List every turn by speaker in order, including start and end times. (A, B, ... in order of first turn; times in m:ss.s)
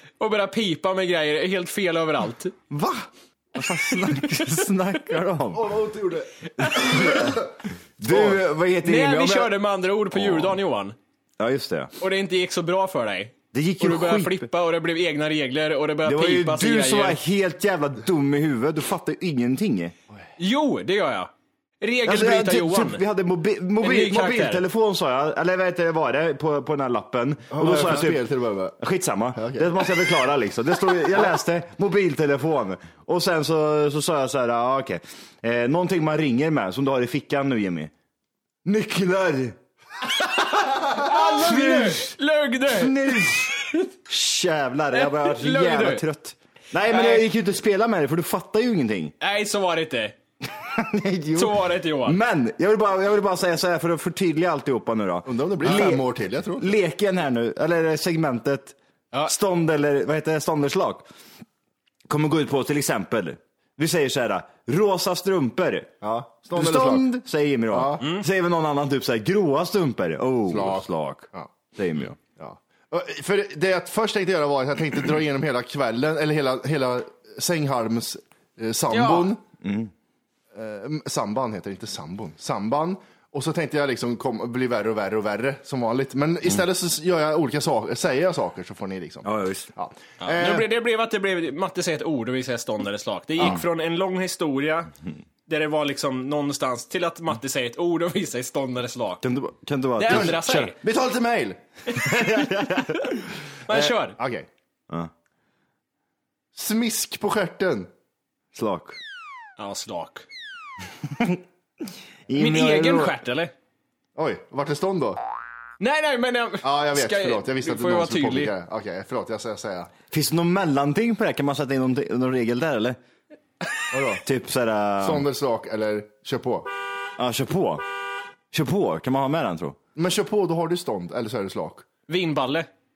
0:00.2-0:02.5 A
0:02.7-0:05.7 B
0:05.5-0:07.5 C
0:06.6-0:07.1 A
0:06.8-0:07.4 B
0:08.0-0:09.5 B
0:08.1-0:08.4 C
0:08.8-0:11.0 A
0:10.1-0:10.6 B
0:11.4-0:11.9 B
0:12.0-0:17.2 A
0:13.5-0:14.5 B
0:16.0-0:19.9 B
0:20.4-0:23.0 A
0:22.0-0:28.3 B
0:23.8-0:24.6 A
0:27.5-0:28.8 C
0:28.8-0:37.9 B
0:29.3-0:29.8 C
0:38.6-0:39.6 B
0:40.2-0:43.8 A
0:41.1-0:42.1 B
0:42.7-0:49.1 B
0:44.9-0:46.0 A
0:46.9-0:47.3 A
0:49.2-0:50.2 A
0:50.5-0:56.0 B
0:51.3-0:52.2 A
0:55.2-0:56.7 C
0:56.6-1:01.0 B
1:02.1-1:05.9 B
1:06.0-1:07.1 C
1:06.5-1:12.2 B
1:07.7-1:08.0 C
1:08.0-1:08.2 A
1:10.5-1:11.5 C
1:12.3-1:19.4 C
1:18.9-1:19.3 A
1:19.6-1:19.9 B
1:20.5-1:30.6 C
1:29.2-1:29.7 B
1:30.2-1:34.9 A
1:35.5-1:39.2 A
1:39.2-1:40.7 B
1:40.0-1:40.8 A
1:40.0-1:41.6 C
1:42.0-1:43.2 B
1:43.7-1:44.2 A
1:43.7-1:44.5 C
1:46.5-1:47.9 C
1:48.5-1:49.0 B
1:49.6-1:50.2 A
1:51.1-1:51.4 B
1:52.3-1:53.1 B
1:52.4-1:53.5 A
1:54.2-1:55.2 C
1:55.8-1:58.5 A
1:56.6-1:59.9 C
2:00.1-2:03.0 B
2:03.9-2:04.2 C
2:04.2-2:05.2 B
2:05.0-2:06.7 C
2:07.2-2:07.8 B
2:08.5-2:09.8 B
2:10.0-2:11.8 C
2:12.1-2:12.7 A